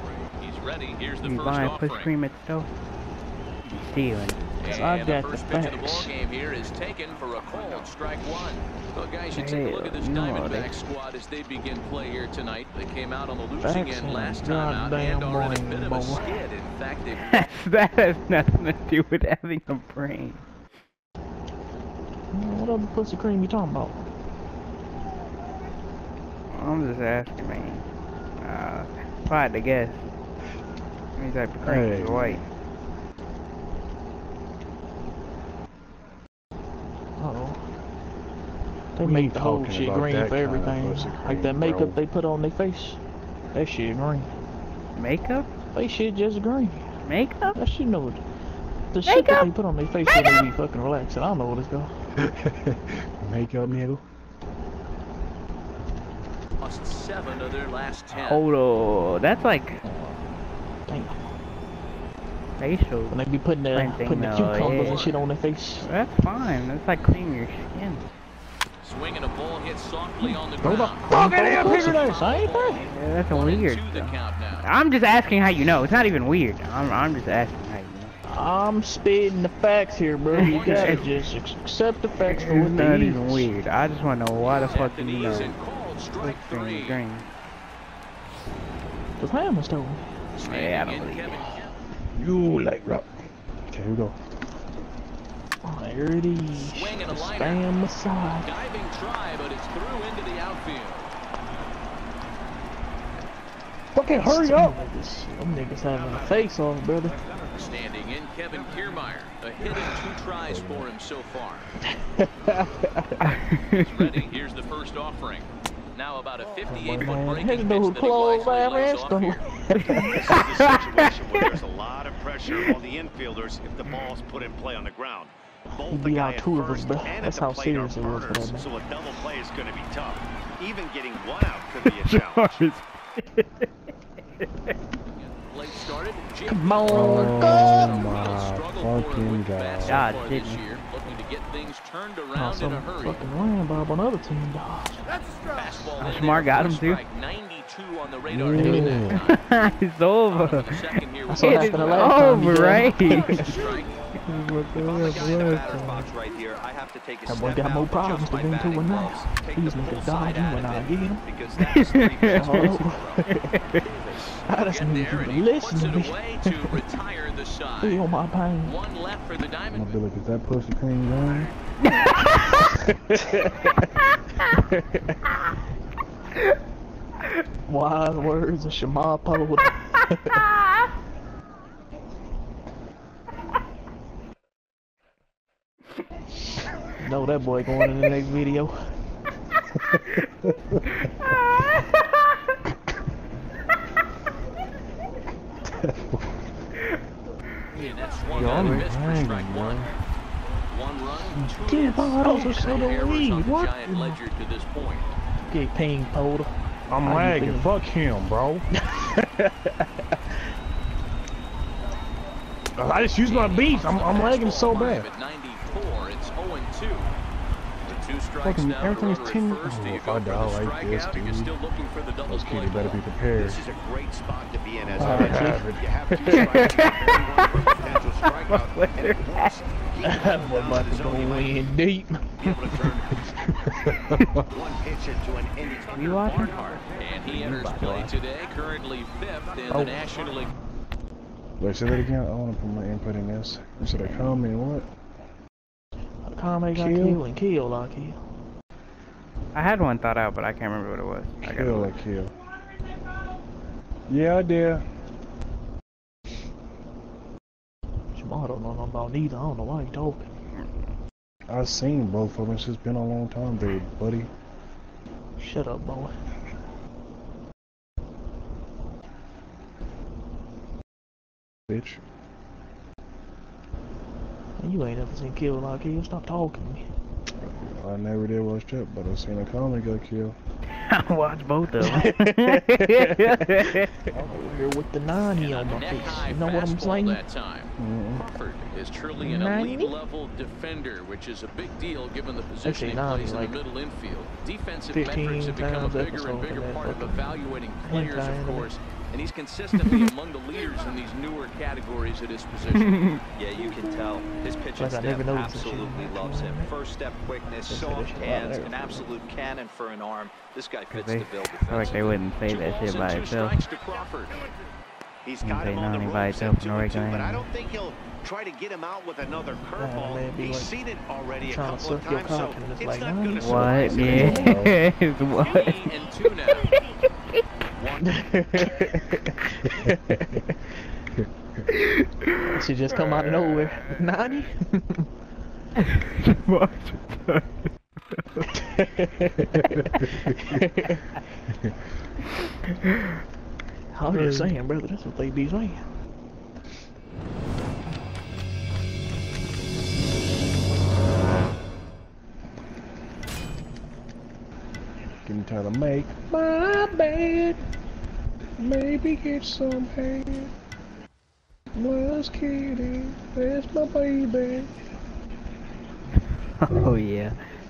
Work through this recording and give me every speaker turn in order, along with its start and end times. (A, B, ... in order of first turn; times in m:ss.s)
0:00.4-0:02.1 A
0:01.2-0:02.7 B
0:03.6-0:04.4 B
0:04.6-0:06.1 C
0:04.6-0:17.5 A
0:09.3-0:10.7 B
0:13.6-0:16.4 C
0:17.2-0:20.4 B
0:22.3-0:24.0 C
0:26.5-0:27.8 B
0:28.4-0:30.0 B
0:31.2-0:32.4 B
0:31.6-0:32.4 D
0:37.2-0:37.6 C
0:39.0-0:43.0 C
0:39.0-0:42.0 D
0:43.5-0:44.3 C
0:45.0-0:45.5 B
0:45.7-0:46.9 C
0:47.0-0:47.6 B
0:47.5-0:48.2 C
0:48.9-0:51.9 C
0:49.1-0:49.5 B
0:52.2-0:54.0 D
0:56.6-0:58.5 A
0:58.1-0:59.8 B
0:59.8-1:00.2 C
1:00.9-1:01.3 C
1:02.6-1:05.1 B
1:03.1-1:05.9 C
1:04.6-1:05.2 A
1:05.8-1:08.1 B
1:08.8-1:14.6 A
1:10.6-1:12.2 D
1:11.1-1:12.8 C
1:12.8-1:18.1 B
1:18.2-1:23.5 C
1:20.4-1:21.1 B
1:20.5-1:21.0 A
1:22.3-1:25.6 B
1:22.9-1:23.4 D
1:24.6-1:27.0 A
1:26.2-1:27.3 B
1:29.2-1:30.1 C
1:30.4-1:31.7 A
1:30.4-1:31.4 B
1:32.2-1:33.1 D
1:33.7-1:34.2 D
1:35.6-1:38.6 C
1:36.6-1:37.6 A
1:38.4-1:41.1 A
1:43.9-1:44.8 D
1:44.2-1:47.2 C
1:47.5-1:51.7 A
1:50.4-1:50.9 D
1:51.9-1:53.3 C
1:53.3-1:53.8 B
1:53.6-1:59.4 A
1:56.8-2:00.5 C
1:56.9-1:57.2 D
1:59.9-2:05.3 E
2:00.5-2:01.0 B
2:05.7-2:08.7 C
2:05.9-2:10.2 E
2:10.7-2:12.5 E
2:11.5-2:13.7 B
2:15.1-2:23.2 A
2:16.5-2:18.1 C
2:16.8-2:20.1 D
2:19.8-2:20.6 B
2:22.3-2:25.0 C
2:25.5-2:29.4 A
2:26.0-2:27.0 B
2:28.3-2:29.2 D
2:28.5-2:36.1 B
2:28.6-2:29.0 C
2:30.3-2:32.1 A
2:31.3-2:33.8 C
2:33.0-2:34.0 A
2:34.9-2:42.2 F
2:37.3-2:41.3 C
2:41.6-2:43.8 B
2:42.3-2:43.4 C
2:42.3-2:42.8 A
2:43.8-2:48.1 A
2:44.5-2:46.7 C
2:47.8-2:48.8 C
2:48.6-2:50.0 A
2:49.7-2:51.5 D
2:52.2-2:53.7 C
2:54.5-2:55.3 C
2:57.7-3:00.5 C
3:07.0-3:08.8 C
3:09.8-3:10.8 D
3:11.3-3:11.8 B
3:15.8-3:16.4 D
3:17.7-3:19.9 A
3:18.4-3:18.8 B
3:18.4-3:20.0 D
3:20.7-3:25.1 A
3:21.6-3:24.2 C
3:25.5-3:26.5 C
3:26.9-3:28.7 D
3:27.0-3:27.7 C
3:32.8-3:35.1 D
3:33.2-3:37.1 A
3:37.8-3:43.0 A
3:38.4-3:41.5 D
3:42.3-3:43.6 D
3:43.4-3:49.6 E
3:44.9-3:46.2 D
3:45.0-3:45.7 C
3:46.2-3:49.7 B
3:50.0-3:52.3 C
3:50.5-3:51.3 E
3:52.4-3:53.1 A
3:53.8-3:54.4 D
3:54.6-3:55.8 E
3:55.8-4:00.5 A
3:55.9-3:58.2 B
3:59.7-4:00.0 D
4:01.6-4:04.9 D
4:03.8-4:04.4 B
4:06.2-4:08.2 C
4:06.8-4:07.2 D
4:09.5-4:12.0 B
4:11.4-4:12.3 D
4:14.1-4:14.8 D
4:18.1-4:20.3 C
4:21.5-4:24.3 D
4:25.4-4:26.1 C
4:31.7-4:32.0 D
4:34.6-4:36.8 C
4:37.4-4:40.4 D
4:40.8-4:43.9 B
4:41.8-4:47.2 C
4:44.2-4:44.5 D
4:45.4-5:03.2 A
4:47.8-4:48.3 D
4:49.2-4:49.9 C
4:52.6-4:53.6 C
4:54.9-4:58.7 C
5:02.8-5:03.2 B
5:03.4-5:12.0 F
5:03.5-5:06.7 C
5:07.6-5:09.2 C
5:10.9-5:13.6 B
5:11.8-5:14.4 A
5:15.3-5:20.7 E
5:15.4-5:17.5 B
5:19.8-5:20.8 C
5:21.3-5:24.3 E
5:21.3-5:24.5 C
5:23.3-5:25.9 B
5:24.0-5:24.8 D
5:25.3-5:26.7 A
5:26.5-5:26.9 B
5:27.8-5:28.3 A
5:28.0-5:30.6 C
5:31.7-5:32.5 B
5:32.4-5:35.1 C
5:35.8-5:37.5 B
5:38.6-5:40.9 C
5:43.9-5:45.8 C
5:55.2-5:57.6 D
5:58.6-6:00.5 D
6:01.8-6:04.7 D
6:06.6-6:07.4 B